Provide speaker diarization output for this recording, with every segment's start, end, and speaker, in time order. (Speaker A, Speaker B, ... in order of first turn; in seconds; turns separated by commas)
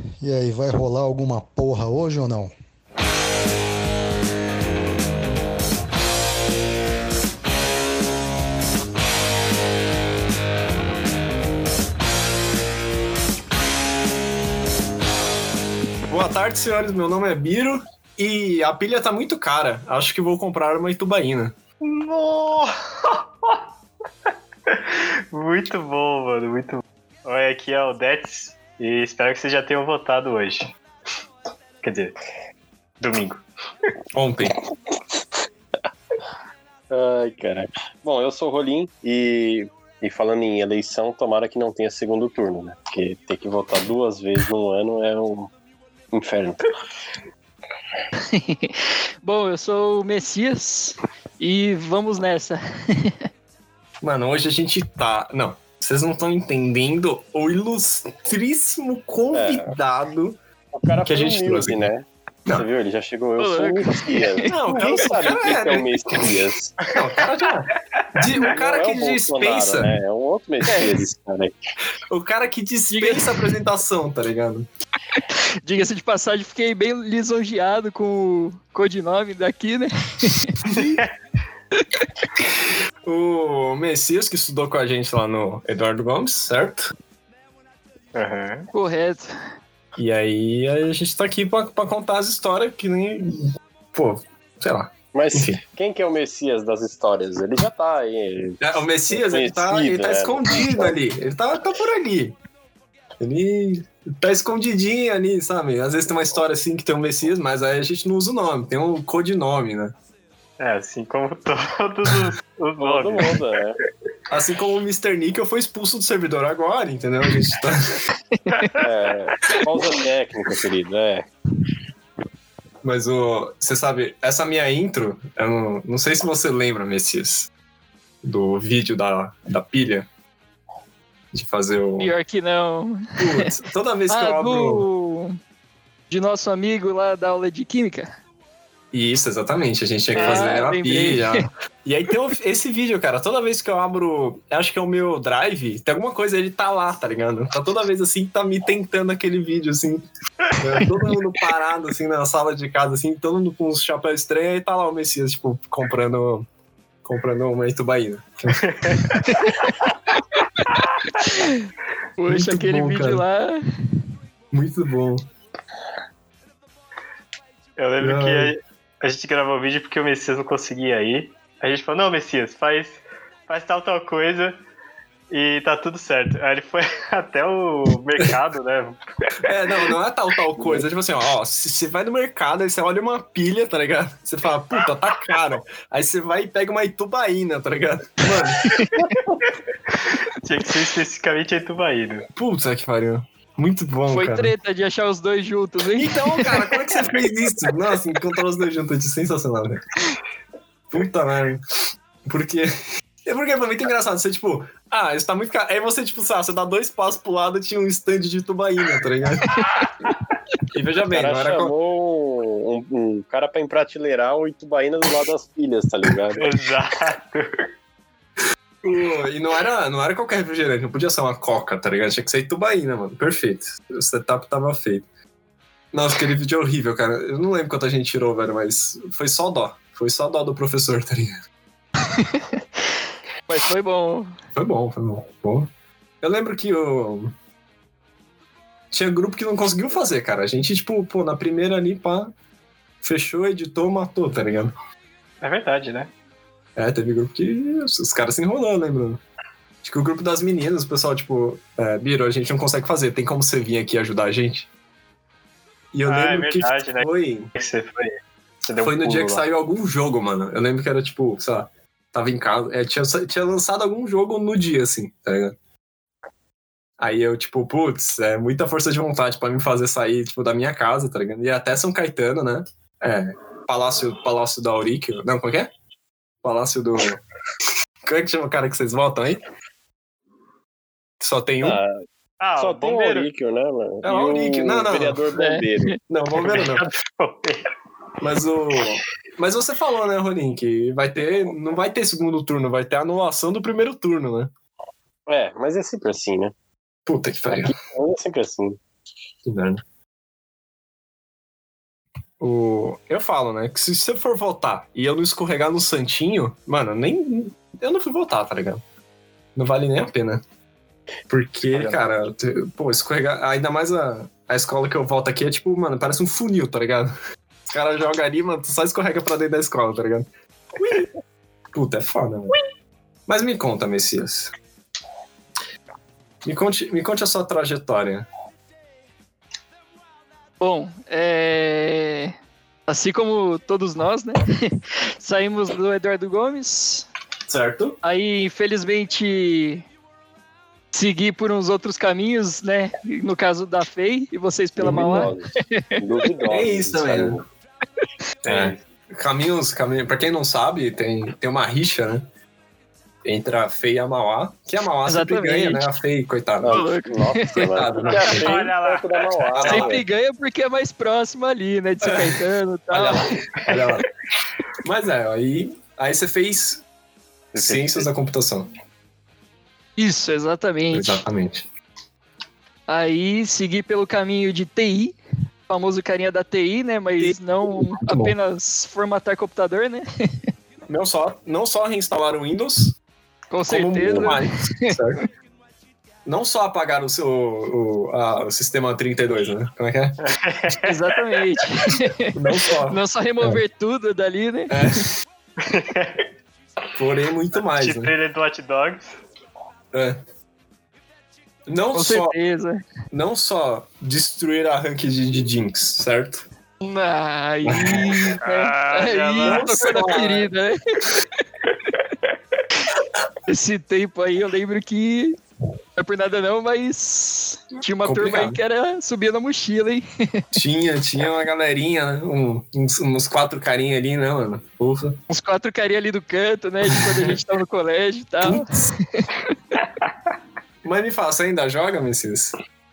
Speaker A: 0.2-2.5, Speaker B: 16.1-21.6, Speaker C: 21.8-23.6, Speaker C: 24.7-30.7, Speaker C: 31.8-32.2, Speaker C: 33.0-33.4, Speaker B: 34.1-34.6, Speaker D: 36.9-45.5, Speaker D: 46.1-46.6, Speaker E: 48.3-53.2, Speaker B: 54.0-60.4, Speaker D: 59.3-59.7, Speaker D: 60.7-66.8, Speaker B: 61.0-61.9, Speaker E: 63.4-64.5, Speaker B: 64.5-65.9, Speaker B: 66.9-70.0, Speaker D: 68.4-71.6, Speaker B: 72.1-74.7, Speaker E: 72.9-73.3, Speaker E: 75.2-80.7, Speaker B: 80.7-81.0, Speaker C: 80.7-81.1, Speaker B: 83.1-86.9, Speaker C: 88.1-88.7, Speaker E: 88.7-89.3, Speaker B: 90.0-95.6, Speaker D: 95.1-101.0, Speaker B: 98.6-102.4, Speaker B: 103.2-110.0, Speaker C: 110.6-113.5, Speaker D: 112.8-113.8, Speaker B: 114.3-118.0, Speaker E: 118.4-118.8, Speaker D: 118.8-121.3, Speaker B: 122.8-127.5, Speaker B: 128.2-130.1, Speaker B: 131.3-132.1, Speaker E: 132.0-133.5, Speaker B: 133.2-134.8, Speaker E: 134.1-135.4, Speaker E: 136.1-138.1, Speaker B: 138.9-150.1, Speaker C: 140.2-140.5, Speaker E: 140.2-141.5, Speaker B: 150.6-156.5, Speaker B: 157.0-159.2, Speaker C: 158.7-159.0, Speaker E: 159.3-159.7, Speaker E: 161.2-161.6, Speaker E: 162.2-163.6, Speaker B: 162.3-163.2, Speaker B: 164.5-165.2, Speaker C: 167.8-174.6, Speaker B: 168.0-168.5, Speaker C: 175.3-179.9, Speaker B: 179.4-188.8, Speaker E: 188.6-189.0, Speaker C: 189.9-192.3, Speaker B: 192.3-194.5, Speaker E: 194.1-196.7, Speaker B: 195.9-199.8, Speaker B: 200.9-201.6, Speaker B: 202.2-202.7, Speaker B: 203.2-209.5, Speaker E: 209.6-209.8, Speaker B: 210.7-211.7, Speaker D: 211.1-216.5, Speaker C: 216.3-217.7, Speaker B: 218.8-225.1, Speaker B: 225.9-231.4, Speaker E: 232.1-232.6, Speaker E: 233.5-234.3, Speaker B: 234.6-235.7, Speaker B: 236.2-237.3, Speaker B: 238.9-242.3, Speaker B: 243.0-244.7, Speaker C: 245.4-246.1, Speaker B: 246.8-249.2, Speaker B: 249.8-254.7, Speaker B: 255.9-257.5, Speaker C: 256.1-259.4, Speaker B: 258.8-265.6, Speaker B: 267.0-275.7, Speaker B: 276.4-277.2, Speaker B: 278.1-279.4, Speaker B: 281.2-281.8, Speaker D: 281.6-282.0, Speaker C: 282.4-283.3, Speaker D: 282.6-286.0, Speaker B: 284.0-285.2, Speaker E: 285.4-286.0, Speaker B: 286.1-286.9, Speaker C: 286.4-287.7, Speaker B: 288.2-294.5, Speaker D: 295.3-296.5, Speaker B: 297.1-297.7, Speaker D: 297.5-298.8, Speaker B: 299.4-299.8, Speaker B: 302.4-308.8, Speaker B: 309.6-310.4, Speaker B: 311.3-317.1, Speaker B: 317.7-321.1, Speaker B: 321.7-322.6, Speaker B: 323.3-324.5, Speaker B: 326.4-328.3, Speaker E: 330.6-332.4, Speaker E: 332.9-337.1, Speaker B: 337.5-338.0, Speaker E: 338.0-339.8, Speaker E: 340.9-346.3, Speaker D: 344.8-347.4, Speaker B: 346.5-347.4, Speaker C: 348.4-348.8, Speaker B: 348.4-352.3, Speaker B: 353.2-356.8, Speaker E: 355.1-355.9, Speaker D: 356.6-360.0, Speaker E: 356.7-358.4, Speaker B: 357.5-358.6, Speaker C: 358.2-359.9, Speaker B: 359.5-359.9, Speaker E: 359.6-363.3, Speaker B: 362.0-364.1, Speaker C: 363.7-364.0, Speaker B: 364.8-366.8, Speaker B: 367.5-368.7, Speaker D: 367.6-368.1, Speaker E: 370.0-371.2, Speaker B: 370.9-371.7, Speaker E: 372.9-375.1, Speaker E: 375.7-380.1, Speaker B: 377.2-378.4, Speaker B: 380.9-383.0, Speaker E: 383.5-385.0, Speaker B: 383.7-385.2, Speaker B: 386.3-390.2, Speaker C: 390.2-391.0, Speaker E: 390.8-395.0, Speaker B: 392.3-393.6, Speaker B: 394.7-395.1, Speaker C: 395.6-396.2, Speaker B: 397.0-398.1, Speaker C: 397.6-399.2, Speaker B: 399.9-400.2, Speaker B: 401.7-402.4, Speaker E: 401.9-402.8, Speaker B: 403.1-406.5, Speaker E: 406.8-411.2, Speaker B: 407.6-408.2, Speaker C: 408.2-409.7, Speaker B: 409.4-410.5, Speaker E: 413.5-415.4, Speaker E: 416.0-420.4, Speaker B: 418.0-418.6, Speaker B: 420.5-425.2, Speaker E: 425.3-429.5, Speaker B: 426.9-427.4, Speaker B: 428.4-428.9, Speaker B: 430.8-432.6